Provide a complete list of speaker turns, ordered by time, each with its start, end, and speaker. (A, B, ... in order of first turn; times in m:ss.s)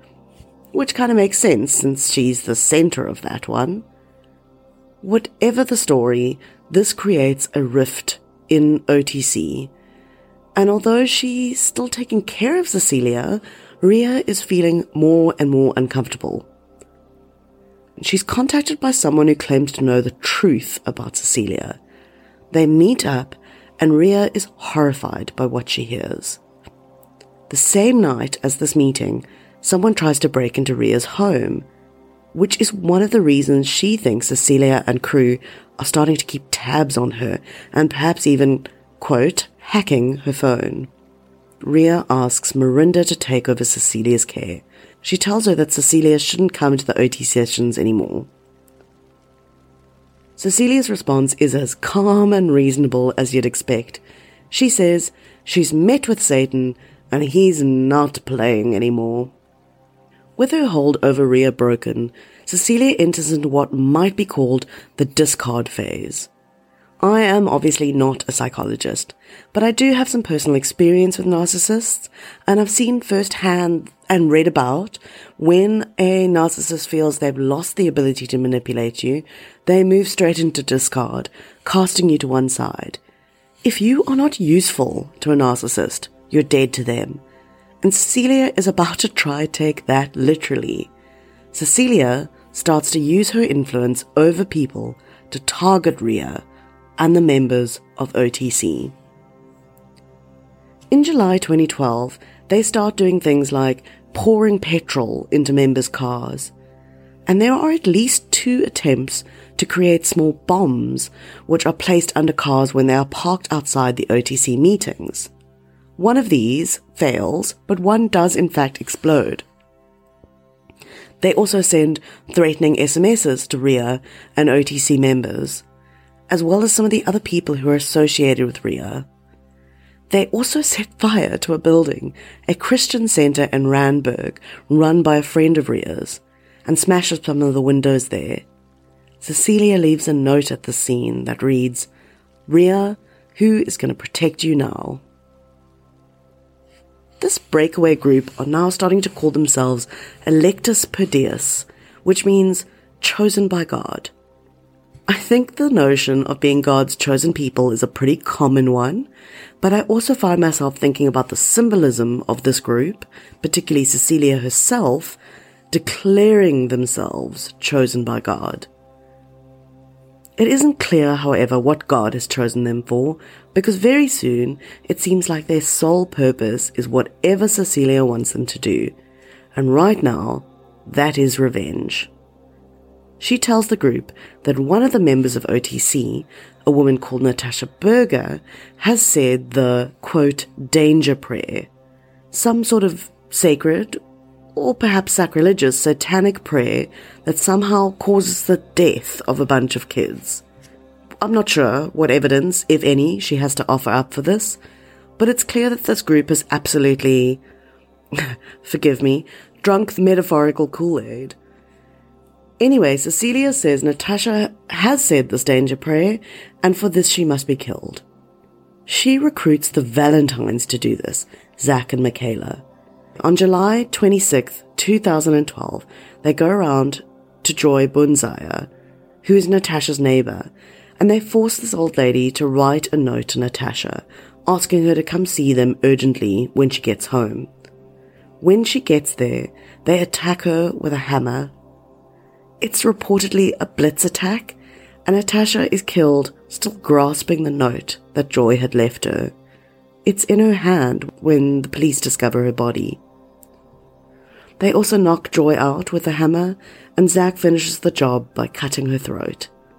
0:00.7-0:03.8 A
0:05.0-0:09.7 A
0:10.6-0:16.5 A
0:18.0-0:21.8 A
0:22.5-0:26.4 A
0:27.5-0:31.7 A
0:32.3-0:40.9 A
0:41.6-0:48.3 A
0:50.4-0:59.3 A
1:00.4-1:06.3 A
1:07.0-1:23.0 A
1:23.6-1:27.2 A
1:27.8-1:30.9 A
1:31.5-1:36.4 A
1:37.0-1:38.9 A
1:40.9-1:46.5 A
1:47.3-1:55.3 A
1:56.0-1:59.4 A
2:01.2-2:05.6 A
2:06.3-2:09.1 A
2:10.1-2:18.4 A
2:19.2-2:21.9 A
2:22.5-2:25.0 A
2:27.2-2:34.1 A
2:35.1-2:39.1 A
2:39.6-2:45.2 A
2:45.7-2:48.7 A
2:50.4-2:58.9 A
2:59.6-3:02.1 A
3:03.2-3:11.7 A
3:12.3-3:14.0 A
3:14.5-3:20.4 A
3:21.2-3:24.6 A
3:25.2-3:27.4 A
3:28.1-3:31.4 A
3:32.6-3:38.0 A
3:38.9-3:42.6 A
3:43.2-3:48.7 A
3:49.2-3:57.5 A
3:58.4-4:01.5 A
4:02.6-4:09.3 A
4:10.0-4:13.0 A
4:14.6-4:19.5 A